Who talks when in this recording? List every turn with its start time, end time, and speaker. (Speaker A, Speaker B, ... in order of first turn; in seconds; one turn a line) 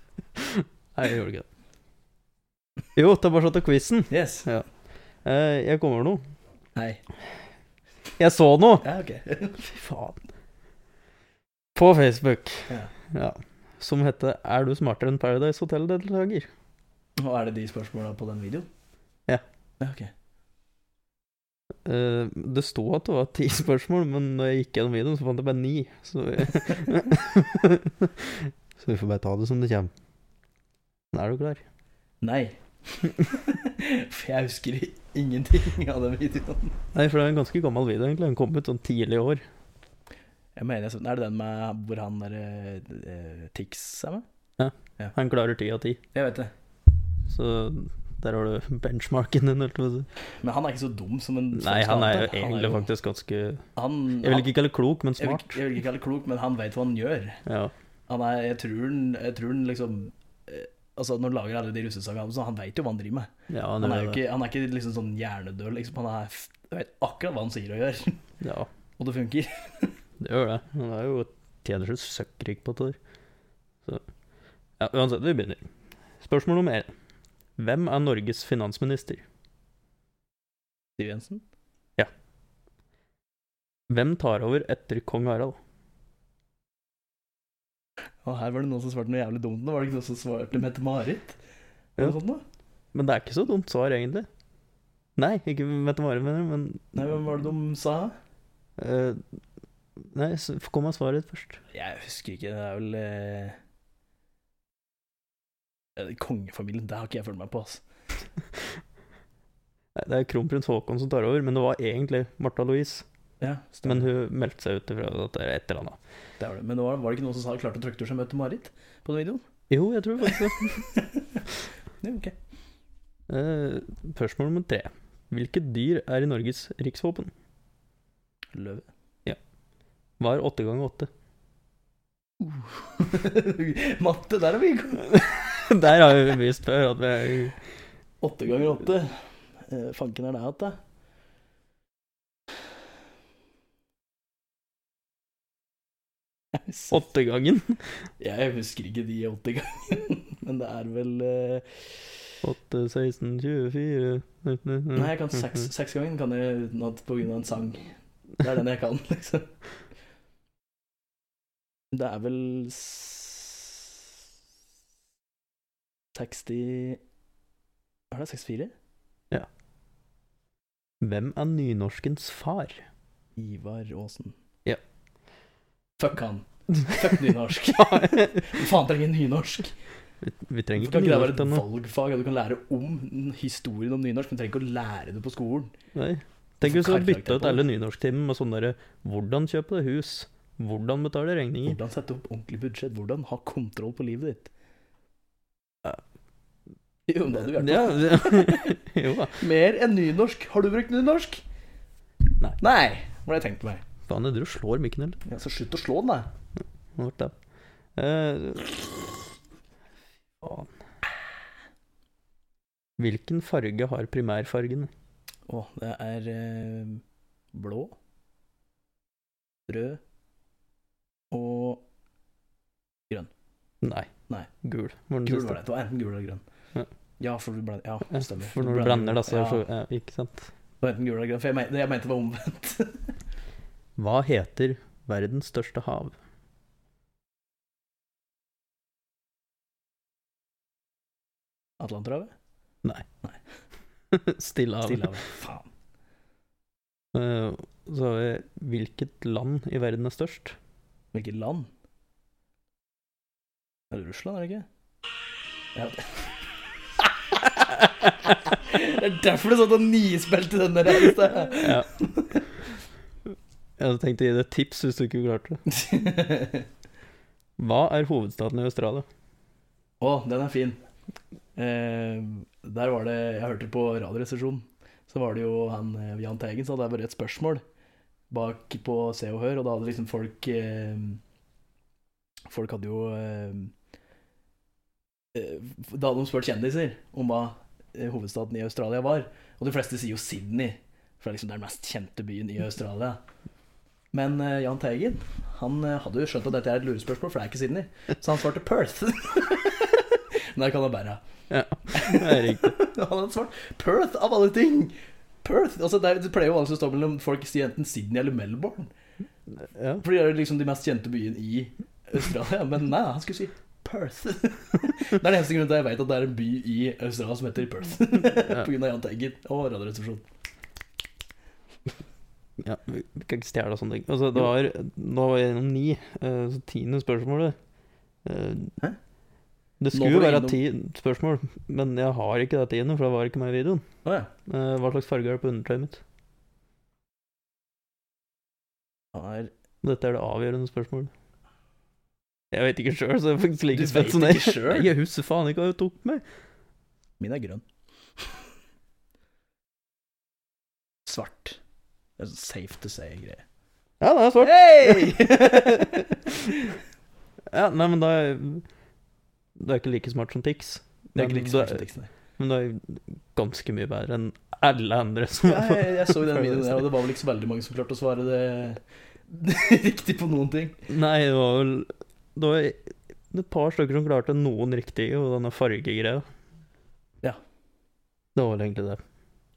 Speaker A: 0.4-1.5
Speaker A: 3.0-4.7
Speaker B: 4.1-4.5
Speaker A: 5.2-6.2
Speaker B: 6.8-7.0
Speaker A: 8.2-8.9
Speaker B: 8.8-9.6
Speaker A: 9.6-10.2
Speaker A: 11.8-16.5
Speaker B: 17.2-18.7
Speaker B: 19.8-20.1
Speaker A: 21.9-29.9
Speaker A: 31.1-31.6
Speaker B: 32.2-36.8
Speaker A: 36.9-39.4
Speaker B: 40.6-44.2
Speaker A: 44.6-46.0
Speaker B: 46.1-46.5
Speaker A: 47.3-50.1
Speaker B: 50.4-52.9
Speaker A: 51.5-53.6
Speaker B: 53.8-54.5
Speaker A: 54.2-55.6
Speaker B: 55.2-57.4
Speaker A: 57.5-57.7
Speaker B: 58.1-68.2
Speaker A: 63.5-64.2
Speaker A: 68.4-68.7
Speaker B: 69.0-70.0
Speaker A: 70.2-73.0
Speaker A: 74.8-75.7
Speaker A: 76.2-76.9
Speaker A: 77.6-79.2
Speaker B: 81.0-81.4
Speaker A: 83.9-85.6
Speaker B: 88.2-91.4
Speaker B: 92.0-92.4
Speaker A: 92.9-94.3
Speaker A: 95.2-97.0
Speaker B: 97.0-98.1
Speaker A: 98.8-99.2
Speaker A: 100.0-101.6
Speaker B: 101.7-103.6
Speaker B: 106.0-107.8
Speaker A: 110.0-113.1
Speaker B: 113.4-114.1
Speaker A: 113.8-116.0
Speaker B: 116.4-119.4
Speaker A: 119.7-121.0
Speaker B: 121.0-121.4
Speaker B: 122.0-122.4
Speaker A: 123.3-127.3
Speaker B: 128.5-128.9
Speaker A: 130.2-131.1
Speaker B: 132.4-135.1
Speaker A: 135.0-137.6
Speaker B: 138.2-140.8
Speaker B: 146.5-147.0
Speaker A: 146.9-147.9
Speaker B: 148.2-152.1
Speaker A: 152.4-155.7
Speaker B: 154.9-159.5
Speaker B: 161.9-164.1
Speaker B: 166.1-167.0
Speaker B: 168.1-168.7
Speaker A: 171.0-172.8
Speaker B: 173.4-174.4
Speaker B: 176.0-179.8
Speaker A: 177.7-178.6
Speaker A: 180.2-181.6
Speaker B: 180.8-185.7
Speaker A: 185.9-191.8
Speaker B: 186.6-187.6
Speaker B: 191.6-194.5
Speaker B: 197.1-198.8
Speaker A: 197.4-199.4
Speaker B: 199.4-201.4
Speaker B: 202.6-203.8
Speaker A: 204.1-205.2
Speaker B: 205.3-206.3
Speaker A: 207.0-207.3
Speaker A: 208.0-209.2
Speaker A: 210.4-210.7
Speaker A: 213.0-214.9
Speaker B: 215.5-217.9
Speaker B: 219.7-220.0
Speaker B: 221.3-221.8
Speaker A: 223.8-224.1
Speaker A: 224.6-225.6
Speaker B: 225.2-226.4
Speaker B: 227.2-229.6
Speaker A: 228.1-230.5
Speaker B: 230.8-233.1
Speaker A: 234.0-236.1
Speaker B: 241.8-242.3
Speaker A: 244.1-245.1
Speaker B: 244.8-245.7
Speaker A: 247.1-250.6
Speaker B: 251.1-251.7
Speaker B: 253.9-254.7
Speaker B: 255.8-256.2
Speaker B: 257.0-262.5
Speaker A: 261.5-261.9
Speaker A: 263.8-265.6
Speaker B: 265.7-266.7
Speaker A: 267.6-269.1
Speaker B: 270.0-270.8
Speaker B: 271.6-277.6
Speaker B: 278.3-281.2
Speaker B: 282.5-283.7
Speaker B: 285.3-293.2
Speaker B: 294.1-301.2
Speaker A: 301.5-302.8
Speaker B: 301.9-308.9
Speaker A: 309.6-310.0
Speaker B: 310.0-320.2
Speaker A: 318.4-318.7
Speaker A: 322.6-327.6
Speaker A: 328.2-328.7
Speaker A: 329.8-333.8
Speaker B: 329.9-330.6
Speaker B: 334.1-334.3
Speaker A: 334.5-336.0
Speaker B: 339.1-339.5
Speaker A: 339.8-341.1
Speaker A: 342.5-346.2
Speaker B: 343.7-344.9
Speaker B: 347.2-347.6
Speaker B: 351.1-351.6
Speaker B: 352.2-353.4
Speaker A: 354.0-356.6
Speaker B: 354.4-356.8
Speaker A: 357.5-358.6
Speaker A: 359.6-361.8
Speaker B: 361.1-362.1
Speaker A: 362.4-366.9
Speaker B: 365.4-370.8
Speaker A: 370.9-376.2
Speaker A: 378.4-379.0